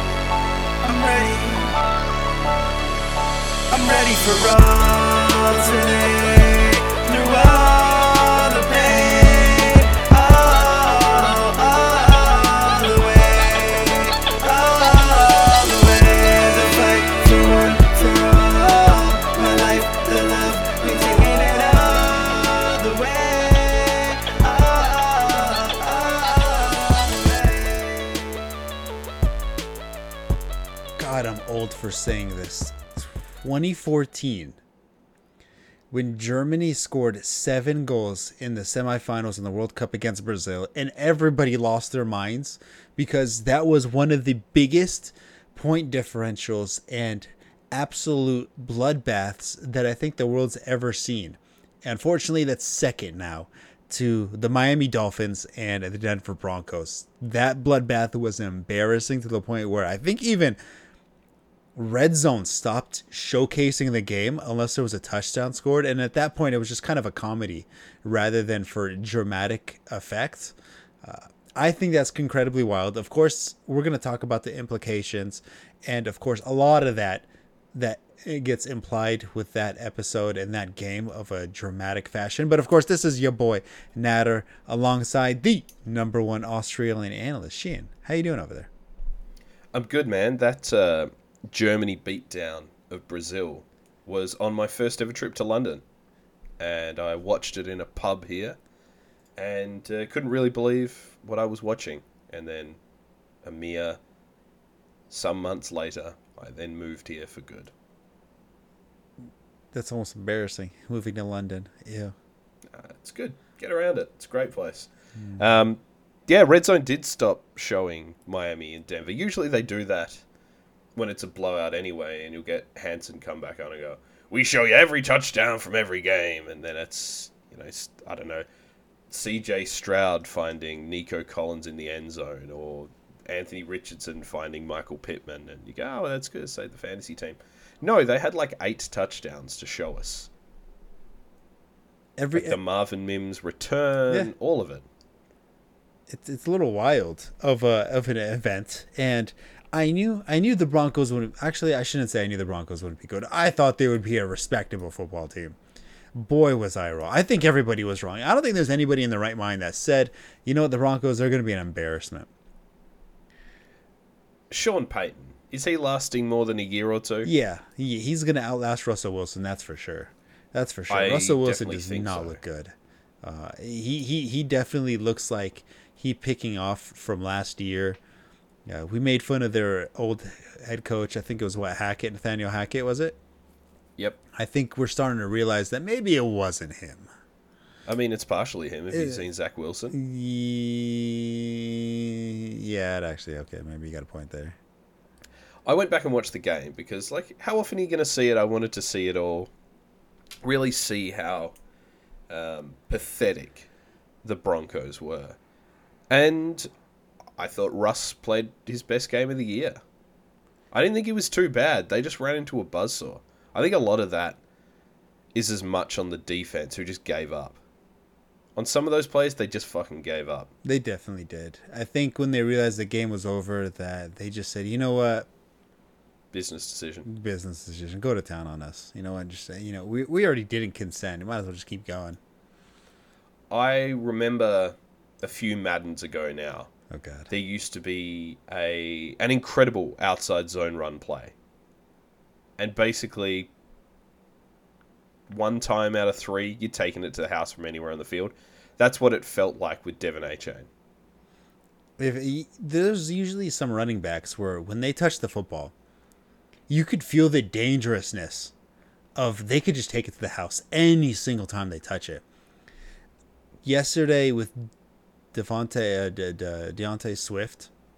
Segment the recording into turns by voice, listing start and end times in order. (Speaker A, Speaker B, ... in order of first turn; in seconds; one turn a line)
Speaker A: 0.8-1.8
Speaker A: 3.7-28.4
Speaker B: 31.0-34.6
Speaker B: 35.9-60.6
Speaker B: 61.8-88.7
Speaker C: 89.7-95.8
Speaker C: 96.6-98.6
Speaker C: 99.4-102.8
Speaker C: 103.4-104.0
Speaker C: 105.1-107.7
Speaker B: 109.7-112.1
Speaker C: 112.7-120.2
Speaker B: 115.2-115.6
Speaker C: 121.0-128.5
Speaker C: 129.1-140.3
Speaker B: 142.2-142.6
Speaker C: 142.3-144.8
Speaker B: 146.1-155.6
Speaker B: 156.1-162.3
Speaker C: 164.5-167.3
Speaker B: 167.2-178.0
Speaker C: 170.9-172.4
Speaker B: 178.7-183.2
Speaker C: 184.0-184.2
Speaker B: 184.3-187.1
Speaker C: 187.9-190.0
Speaker B: 188.9-189.2
Speaker B: 189.9-194.6
Speaker C: 195.7-199.5
Speaker C: 200.4-201.6
Speaker C: 202.3-203.7
Speaker C: 204.2-205.4
Speaker C: 206.1-206.7
Speaker C: 207.4-209.8
Speaker C: 210.7-214.4
Speaker C: 215.3-217.6
Speaker C: 218.6-220.5
Speaker B: 220.6-225.3
Speaker C: 226.3-227.1
Speaker B: 227.1-232.2
Speaker C: 233.5-236.7
Speaker B: 236.9-237.3
Speaker C: 237.3-241.3
Speaker C: 242.6-243.5
Speaker C: 245.3-250.7
Speaker B: 252.0-255.7
Speaker B: 256.7-258.5
Speaker B: 259.2-262.2
Speaker B: 263.6-264.7
Speaker B: 265.3-267.7